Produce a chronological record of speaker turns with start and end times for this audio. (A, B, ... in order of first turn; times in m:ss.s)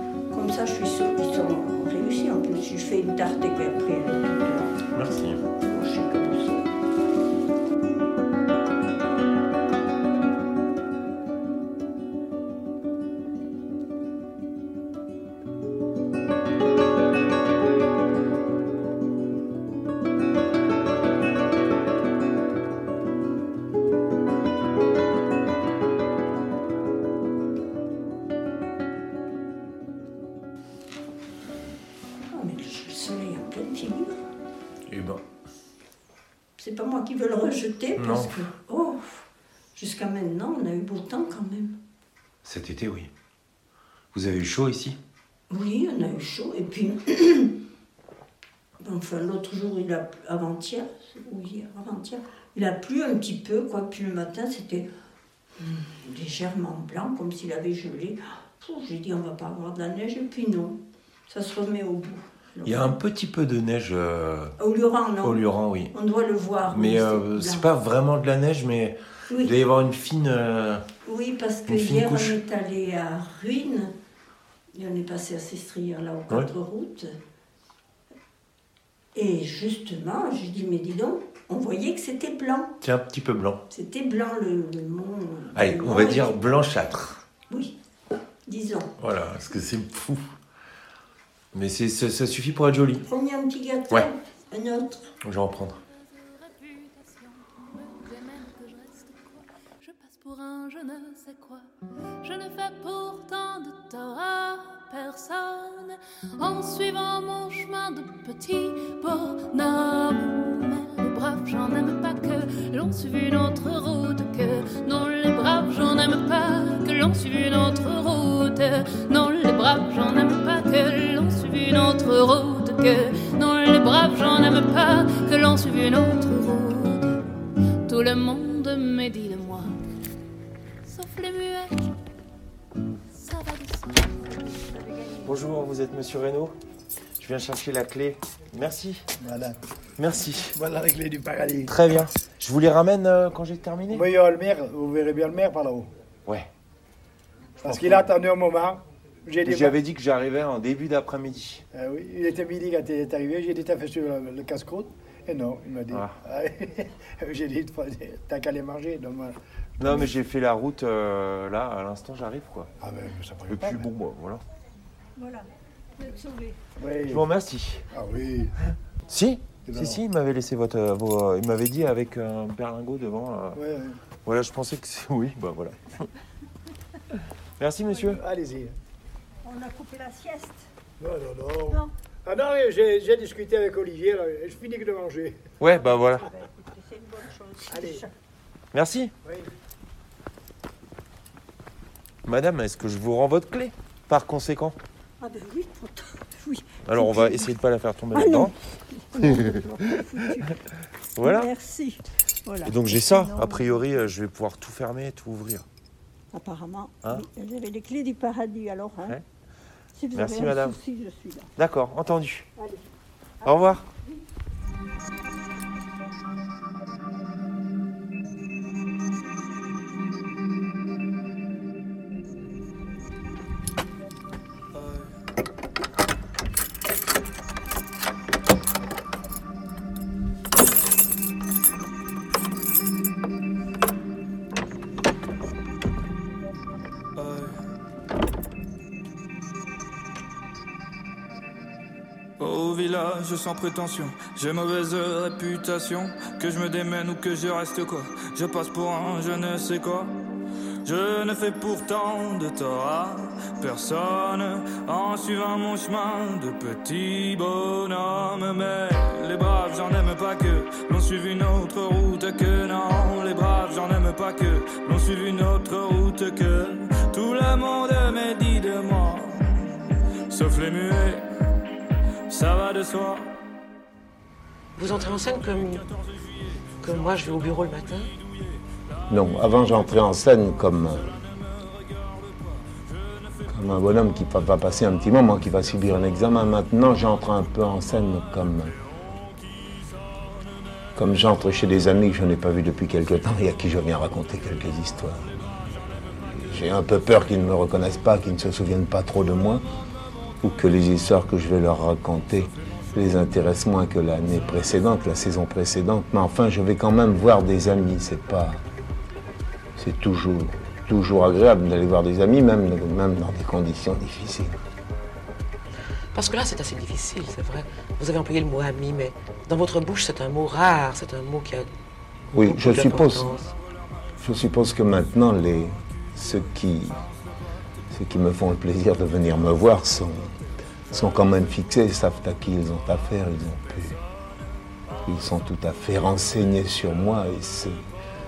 0:00.3-0:04.8 A
0:04.9-0:05.4 B
0:05.6-0:06.8 A
0:32.3-0:34.2 A
0:34.9-0:35.2 B
0:36.6-0:41.8 A
0:38.0-0:38.4 B
0:42.4-0:43.1 B
0:44.1-0:45.0 B
0:45.5-0:47.5 A
0:48.8-0:54.9 A
0:55.6-1:03.0 A
1:02.6-1:04.6 B
1:04.6-1:07.7 A
1:05.2-1:05.9 B
1:06.7-1:10.8 B
1:11.0-1:13.9 A
1:11.7-1:12.4 B
1:14.7-1:17.1 A
1:19.1-1:22.7 A
1:22.8-1:23.6 B
1:23.7-1:26.4 A
1:25.5-1:27.2 B
1:27.5-1:27.8 A
1:28.5-1:28.9 A
1:29.0-1:30.3 B
1:31.5-1:33.0 B
1:33.0-1:35.1 A
1:35.2-1:35.8 B
1:36.1-1:41.6 C
1:42.2-2:07.2 C
2:07.9-2:09.8 C
2:10.8-2:11.8 C
2:13.1-2:15.3 C
2:15.2-2:16.6 B
2:17.2-2:19.0 B
2:19.2-2:19.6 D
2:20.0-2:20.5 B
2:20.5-2:21.7 D
2:21.7-2:24.1 B
2:23.9-2:25.9 D
2:27.6-2:29.8 D
2:27.6-2:28.1 B
2:29.4-2:31.6 B
2:31.7-2:40.1 D
2:39.8-2:42.7 B
2:42.8-2:43.8 D
2:43.5-2:44.4 B
2:46.1-2:46.5 A
2:46.8-2:47.2 D
2:47.1-2:47.9 B
2:47.9-2:48.5 D
2:49.1-2:53.6 B
2:49.7-2:50.0 D
2:53.5-2:54.0 D
2:54.2-2:56.1 B
2:57.6-2:58.2 B
2:58.0-2:58.7 D
2:59.4-3:00.6 A
3:01.0-3:05.4 D
3:05.6-3:06.3 B
3:06.7-3:08.1 A
3:07.7-3:08.0 D
3:08.7-3:09.1 B
3:09.2-3:09.5 D
3:12.2-3:14.8 B
3:15.2-3:17.5 A
3:16.8-3:18.5 B
3:18.1-3:20.6 A
3:21.2-3:21.5 B
3:21.2-3:23.8 A
3:22.6-3:25.6 B
3:26.3-3:29.2 A
3:29.9-3:31.5 A
3:30.1-3:30.8 B
3:31.6-3:32.5 B
3:33.4-3:33.7 A
3:33.4-3:33.9 B
3:44.7-3:45.2 E
3:57.2-3:57.6 E
4:02.4-4:10.2 E
4:10.8-4:29.6 E
4:30.3-4:31.2 E
4:32.3-4:33.3 E
4:34.8-4:35.9 F
4:36.8-4:38.1 F
4:39.1-4:41.3 G
4:43.5-4:48.7 G
4:50.9-4:55.3 G
4:56.2-4:59.6 G
5:00.4-5:08.6 G
5:09.8-5:14.6 G
5:16.1-5:21.7 F
5:22.3-5:23.4 G
5:22.3-5:23.5 F
5:24.2-5:27.0 G
5:27.9-5:30.4 G
5:30.9-5:34.0 G
5:35.0-5:37.8 G